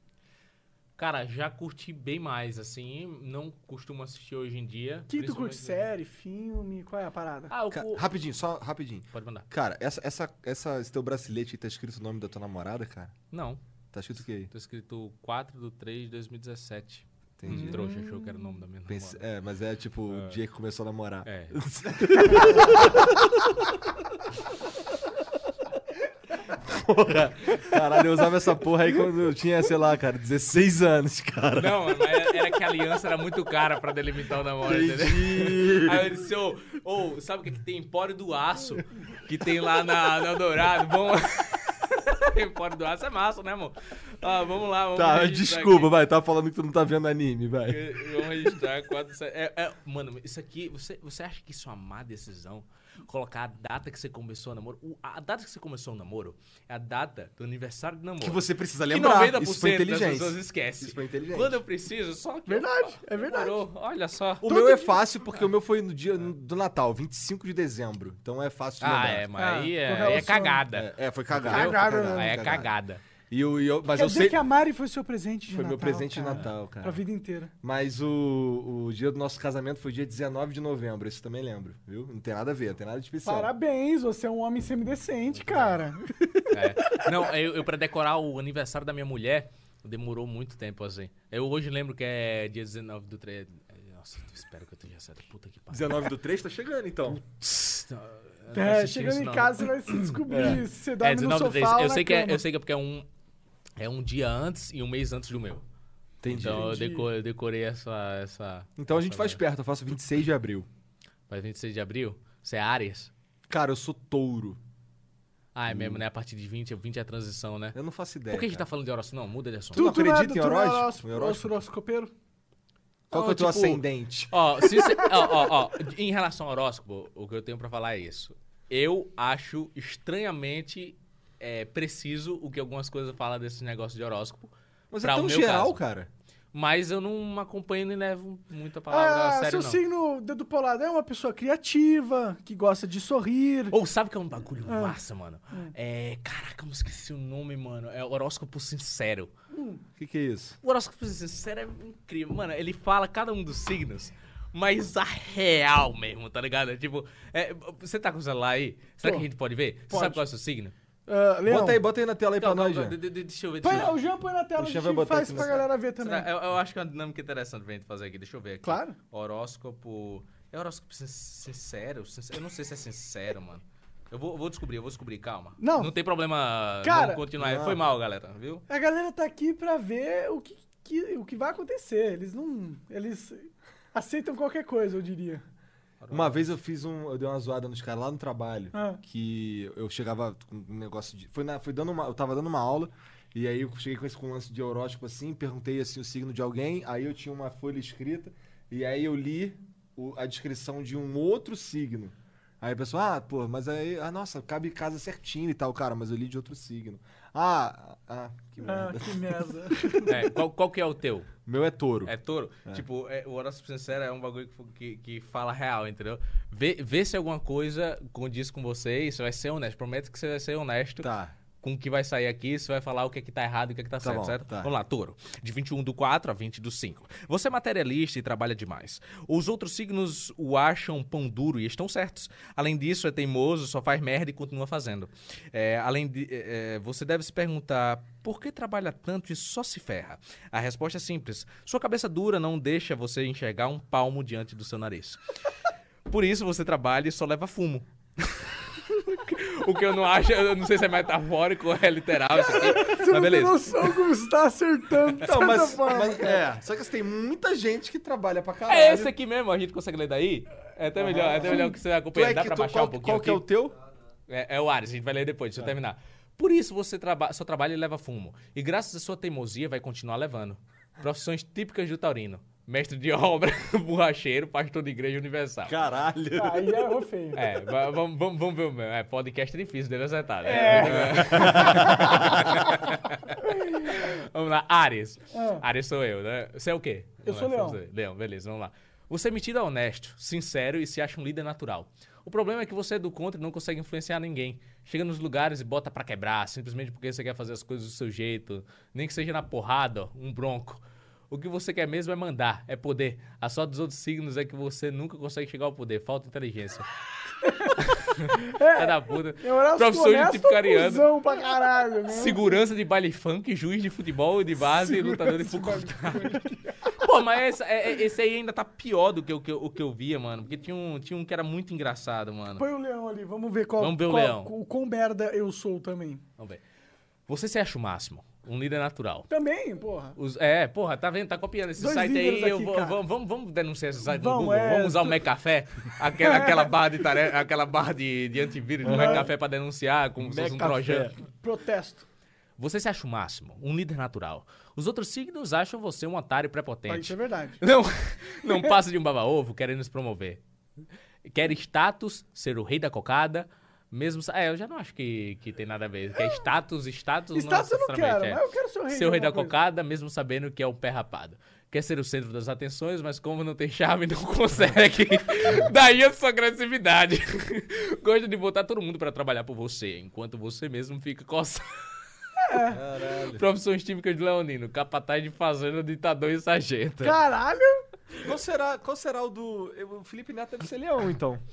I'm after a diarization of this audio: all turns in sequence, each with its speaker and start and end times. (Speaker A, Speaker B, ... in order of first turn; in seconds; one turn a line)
Speaker A: 1.0-5.8
Speaker B: 5.1-7.5
Speaker A: 7.5-8.1
Speaker C: 7.7-13.1
Speaker A: 9.1-9.5
Speaker A: 13.3-13.6
Speaker C: 13.9-14.5
Speaker A: 14.5-19.3
Speaker C: 17.4-17.8
Speaker B: 17.5-18.0
Speaker C: 18.9-23.3
Speaker A: 20.1-20.4
Speaker A: 21.2-22.4
Speaker C: 26.5-32.4
Speaker A: 31.6-45.9
Speaker C: 34.6-36.0
Speaker C: 44.9-48.5
Speaker A: 47.7-64.9
Speaker C: 58.2-61.6
Speaker B: 62.5-63.6
Speaker C: 64.4-69.3
Speaker A: 68.8-73.0
Speaker B: 69.4-70.7
Speaker C: 70.7-72.7
Speaker B: 71.4-72.4
Speaker C: 73.3-74.4
Speaker B: 73.9-77.5
Speaker C: 75.5-77.0
Speaker C: 77.6-83.5
Speaker B: 83.2-87.2
Speaker A: 85.3-85.8
Speaker A: 86.5-96.1
Speaker C: 95.7-97.2
Speaker A: 97.1-103.0
Speaker B: 98.5-102.4
Speaker C: 100.3-100.6
Speaker A: 103.8-105.6
Speaker C: 106.2-106.7
Speaker A: 106.3-109.4
Speaker B: 106.3-107.1
Speaker C: 108.8-110.7
Speaker A: 111.3-113.1
Speaker C: 113.5-114.6
Speaker A: 115.5-117.8
Speaker C: 115.7-116.0
Speaker C: 117.7-118.7
Speaker A: 118.3-119.8
Speaker C: 119.7-121.6
Speaker B: 119.7-122.1
Speaker C: 123.1-125.2
Speaker A: 123.1-135.8
Speaker C: 134.9-136.1
Speaker A: 136.5-139.8
Speaker B: 138.9-143.8
Speaker A: 143.7-149.3
Speaker B: 144.7-145.0
Speaker B: 149.5-149.8
Speaker C: 150.0-150.6
Speaker A: 150.6-160.7
Speaker B: 159.0-159.3
Speaker C: 159.9-160.2
Speaker B: 161.1-161.8
Speaker C: 161.4-163.0
Speaker A: 162.4-164.0
Speaker B: 163.6-166.3
Speaker C: 164.6-165.6
Speaker A: 165.3-178.6
Speaker B: 168.6-169.0
Speaker B: 175.6-175.9
Speaker B: 176.8-177.2
Speaker C: 177.4-177.8
Speaker B: 178.7-185.4
Speaker A: 186.0-186.5
Speaker C: 186.1-210.1
Speaker B: 188.7-189.0
Speaker B: 208.6-210.1
Speaker A: 210.1-211.3
Speaker C: 211.4-212.1
Speaker A: 212.0-221.1
Speaker C: 221.0-221.3
Speaker A: 221.6-245.2
Speaker C: 224.0-224.7
Speaker A: 246.1-254.0
Speaker B: 252.3-256.4
Speaker C: 255.2-259.1
Speaker A: 258.7-263.4
Speaker C: 261.0-263.8
Speaker A: 264.3-275.7
Speaker C: 275.7-276.8
Speaker B: 276.4-277.5
Speaker A: 277.3-306.9
Speaker B: 280.4-282.1
Speaker C: 280.7-282.5
Speaker B: 283.5-284.0
Speaker B: 285.3-285.6
Speaker B: 287.2-287.8
Speaker B: 307.4-312.6
Speaker A: 307.8-311.3
Speaker A: 312.1-322.6
Speaker B: 314.6-316.9
Speaker B: 322.6-326.2
Speaker A: 323.8-324.5
Speaker A: 327.3-329.3
Speaker B: 329.3-330.2
Speaker A: 330.1-341.1
Speaker B: 331.8-333.0
Speaker B: 334.1-335.2
Speaker B: 336.2-336.7
Speaker C: 338.8-339.3
Speaker B: 338.8-339.3
Speaker C: 340.2-341.1
Speaker B: 341.2-342.1
Speaker A: 342.6-350.4
Speaker B: 346.9-347.6
Speaker A: 351.2-371.9
Speaker B: 357.3-359.6
Speaker B: 372.4-372.8
Speaker C: 372.7-373.4
Speaker A: 373.3-377.2
Speaker B: 377.0-377.8
Speaker C: 378.2-381.4